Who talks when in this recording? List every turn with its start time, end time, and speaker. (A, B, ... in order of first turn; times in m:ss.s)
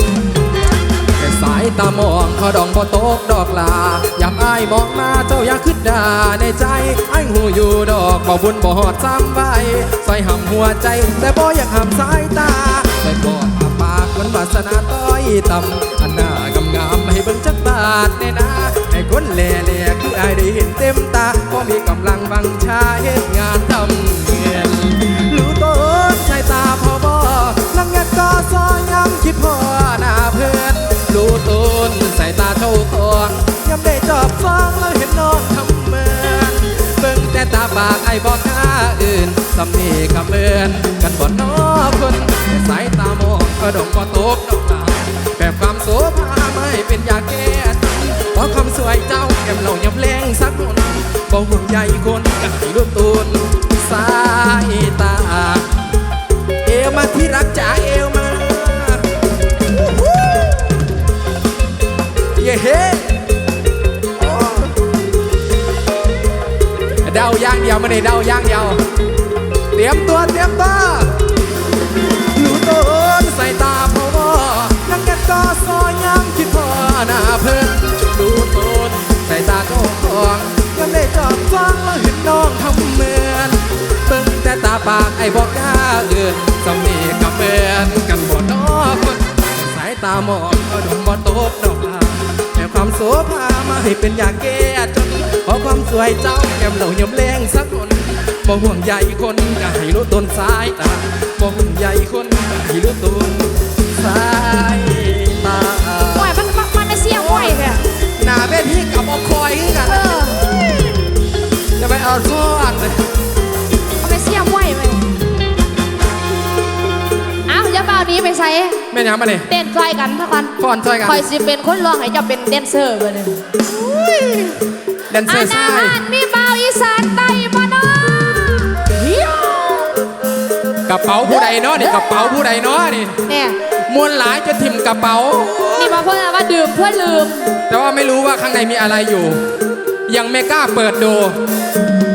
0:01.2-0:55.7 A
0:56.6-0:59.1 A
0:59.8-1:00.6 A
1:02.4-1:03.3 A
1:04.2-1:04.7 A
1:07.0-1:08.8 A
1:09.7-1:11.2 A
1:12.3-1:46.4 A
1:46.2-1:47.8 B
1:47.3-1:47.6 A
1:48.2-1:50.3 A
1:49.8-1:50.9 B
1:51.8-1:53.0 A
1:54.0-1:55.1 B
1:57.5-1:58.8 B
1:58.9-1:59.5 A
1:59.5-2:04.6 B
2:00.6-2:01.2 A
2:05.1-2:06.0 A
2:05.3-2:10.0 B
2:10.9-2:13.2 A
2:11.3-2:12.4 B
2:13.3-2:13.6 B
2:13.9-2:16.0 A
2:15.8-2:17.6 B
2:17.7-2:19.4 A
2:20.1-2:21.4 A